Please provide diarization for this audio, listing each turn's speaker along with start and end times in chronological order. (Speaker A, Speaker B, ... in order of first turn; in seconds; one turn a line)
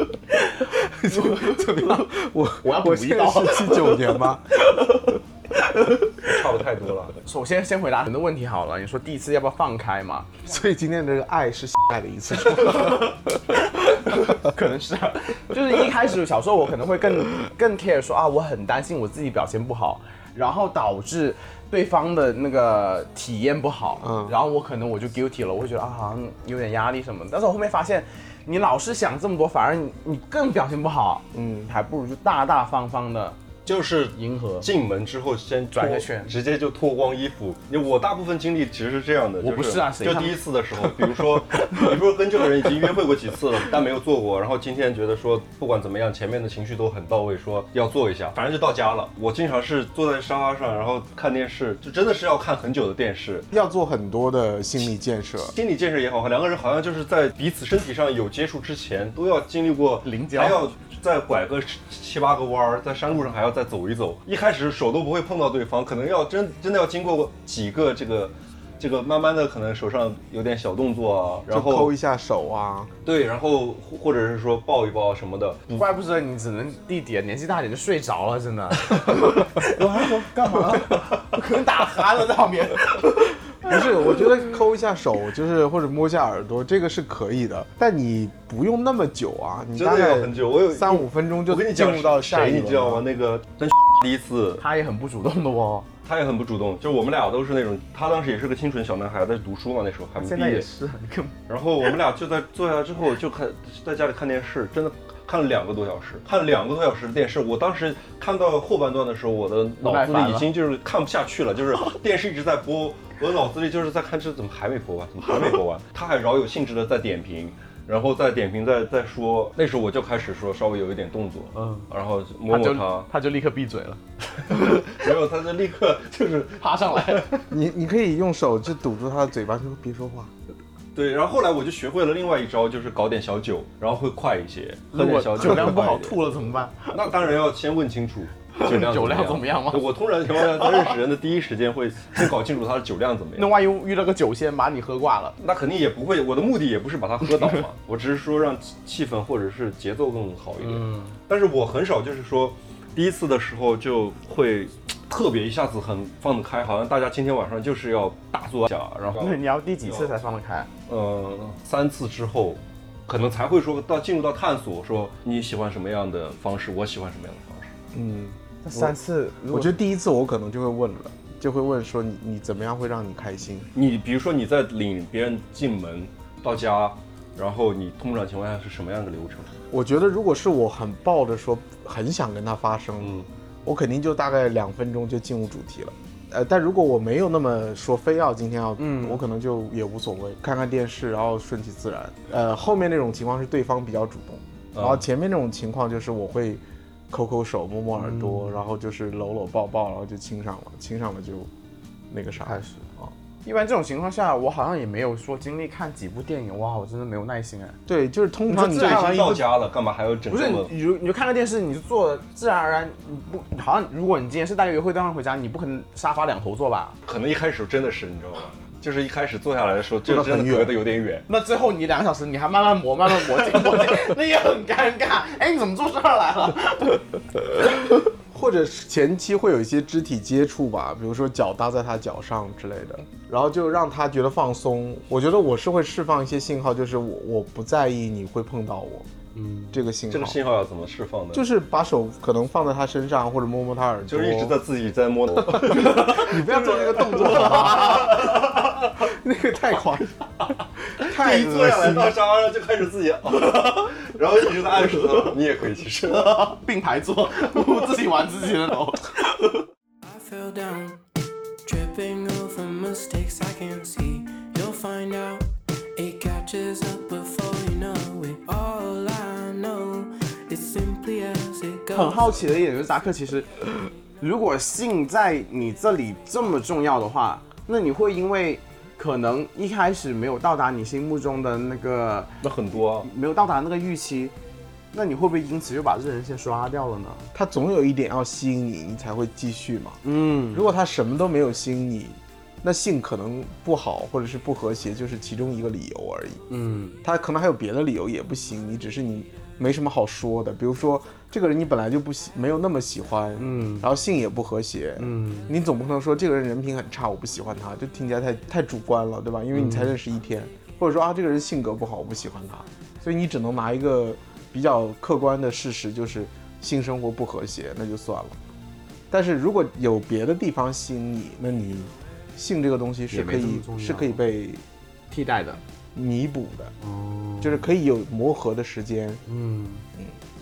Speaker A: 0.5-2.0
Speaker B: 0.8-4.4
Speaker A: 2.6-6.1
Speaker C: 6.2-7.1
Speaker A: 7.2-10.3
Speaker B: 10.4-13.2
Speaker A: 13.9-33.4
Speaker B: 24.0-24.4
Speaker B: 31.3-31.7
Speaker C: 33.6-53.5
Speaker A: 34.1-34.7
Speaker A: 35.7-36.3
Speaker A: 39.4-40.4
Speaker B: 53.5-55.5
Speaker C: 55.5-71.9
Speaker A: 60.0-60.6
Speaker B: 71.5-72.9
Speaker C: 73.0-75.8
Speaker A: 75.7-83.7
Speaker B: 83.6-93.0
Speaker C: 89.8-94.6
Speaker A: 94.6-95.9
Speaker C: 96.0-100.7
Speaker A: 100.2-101.3
Speaker C: 101.5-123.1
Speaker A: 109.8-110.5
Speaker A: 121.5-121.9
Speaker A: 122.5-125.0
Speaker C: 124.5-127.4
Speaker A: 126.6-127.4
Speaker B: 127.5-130.3
Speaker C: 130.9-136.2
Speaker A: 134.9-137.1
Speaker C: 136.9-143.5
Speaker A: 138.5-140.9
Speaker A: 143.4-145.4
Speaker C: 145.4-160.1
Speaker A: 150.6-151.1
Speaker A: 159.2-160.7
Speaker C: 160.9-167.7
Speaker B: 167.9-168.9
Speaker A: 168.6-169.8
Speaker B: 169.5-173.7
Speaker C: 173.8-179.5
Speaker B: 179.7-201.5
Speaker C: 183.0-183.3
Speaker A: 188.8-189.2
Speaker C: 194.8-195.0
Speaker A: 197.9-198.6
Speaker B: 202.1-203.1
Speaker A: 202.4-202.8
Speaker A: 203.4-207.8
Speaker B: 207.9-209.4
Speaker A: 208.5-209.4
Speaker C: 208.5-210.7
Speaker A: 210.3-216.9
Speaker C: 217.1-221.2
Speaker B: 220.1-220.8
Speaker A: 221.3-227.1
Speaker B: 228.2-239.1
Speaker A: 239.4-239.8
Speaker B: 239.7-240.4
Speaker C: 240.1-241.4
Speaker B: 241.3-244.6
Speaker C: 244.1-248.6
Speaker B: 245.4-250.3
Speaker A: 247.3-248.0
Speaker B: 251.0-252.2
Speaker C: 251.0-256.5
Speaker A: 253.4-253.9
Speaker A: 254.7-255.3
Speaker A: 256.0-259.7
Speaker D: 260.0-261.0
Speaker D: 261.6-272.4
Speaker A: 271.9-284.3
Speaker C: 282.4-283.1
Speaker A: 284.9-287.3
Speaker B: 287.3-290.0
Speaker A: 290.0-290.6
Speaker B: 290.5-296.4
Speaker A: 296.5-297.0
Speaker B: 297.0-318.4
Speaker A: 303.4-303.9
Speaker A: 305.0-305.5
Speaker A: 309.5-309.9
Speaker B: 319.1-324.6
Speaker A: 323.1-324.2
Speaker A: 325.1-325.6
Speaker B: 325.9-326.7
Speaker A: 326.8-327.7
Speaker B: 327.4-329.2
Speaker A: 329.2-329.9